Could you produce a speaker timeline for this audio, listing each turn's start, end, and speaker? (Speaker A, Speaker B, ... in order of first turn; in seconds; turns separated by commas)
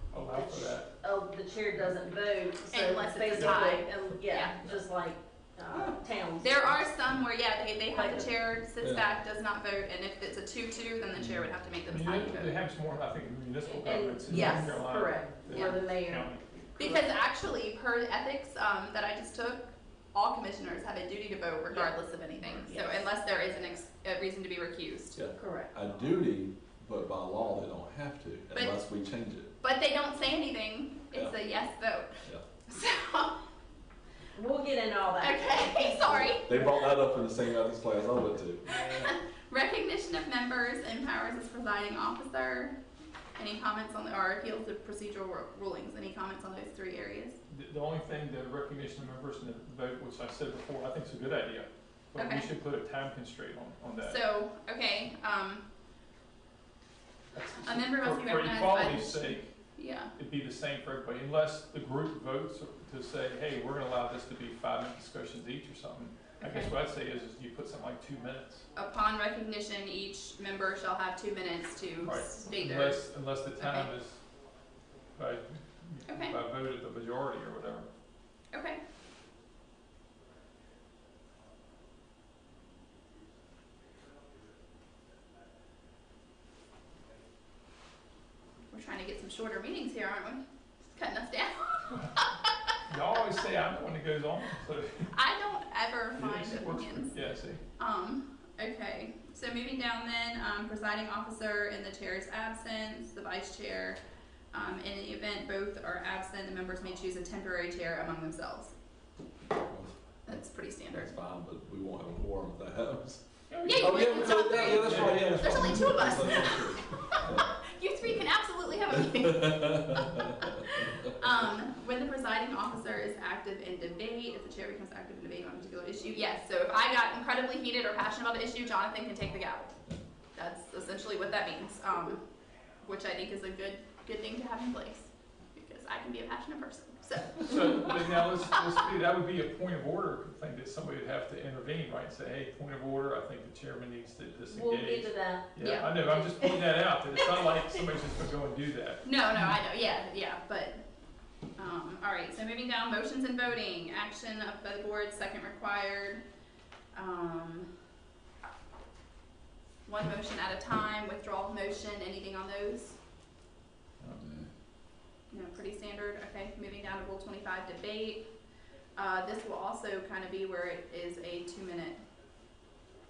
Speaker A: 0.1-0.9, Speaker B: 0.3-6.8, Speaker C: 2.7-4.6, Speaker A: 3.3-3.7, Speaker C: 5.7-12.6, Speaker B: 7.9-8.3, Speaker D: 8.8-9.1, Speaker D: 11.2-11.5, Speaker A: 11.9-17.0, Speaker B: 13.6-17.0, Speaker C: 14.3-14.7, Speaker C: 15.5-15.8, Speaker C: 16.8-25.2, Speaker B: 21.7-23.1, Speaker D: 25.1-29.5, Speaker B: 25.3-25.7, Speaker C: 29.6-33.4, Speaker B: 34.3-36.1, Speaker C: 35.2-37.0, Speaker D: 36.0-38.6, Speaker A: 38.6-39.1, Speaker C: 38.7-42.8, Speaker C: 43.4-47.4, Speaker A: 47.5-54.2, Speaker C: 52.1-52.5, Speaker C: 54.0-55.6, Speaker A: 57.3-59.5, Speaker C: 57.6-60.1, Speaker A: 60.1-68.7, Speaker C: 66.4-66.7, Speaker C: 68.7-73.0, Speaker A: 72.0-74.2, Speaker C: 73.6-73.9, Speaker A: 75.2-77.9, Speaker C: 76.0-76.4, Speaker C: 78.5-78.8, Speaker C: 88.7-92.2, Speaker A: 91.9-92.2, Speaker A: 92.9-95.1, Speaker C: 95.1-97.2, Speaker A: 96.2-97.6, Speaker C: 97.8-104.0, Speaker C: 104.5-108.7, Speaker D: 109.6-109.9, Speaker C: 110.2-111.1, Speaker D: 110.9-113.2, Speaker A: 113.5-115.7, Speaker C: 113.6-129.7, Speaker D: 113.7-117.4, Speaker D: 119.1-120.1, Speaker C: 130.3-132.2, Speaker C: 132.8-138.8, Speaker A: 137.4-149.1, Speaker B: 144.5-145.5, Speaker C: 145.6-146.8, Speaker C: 149.0-150.8, Speaker C: 151.6-156.2, Speaker C: 156.9-157.7, Speaker C: 159.8-163.0, Speaker A: 164.0-164.3, Speaker C: 165.3-168.3, Speaker C: 168.9-172.0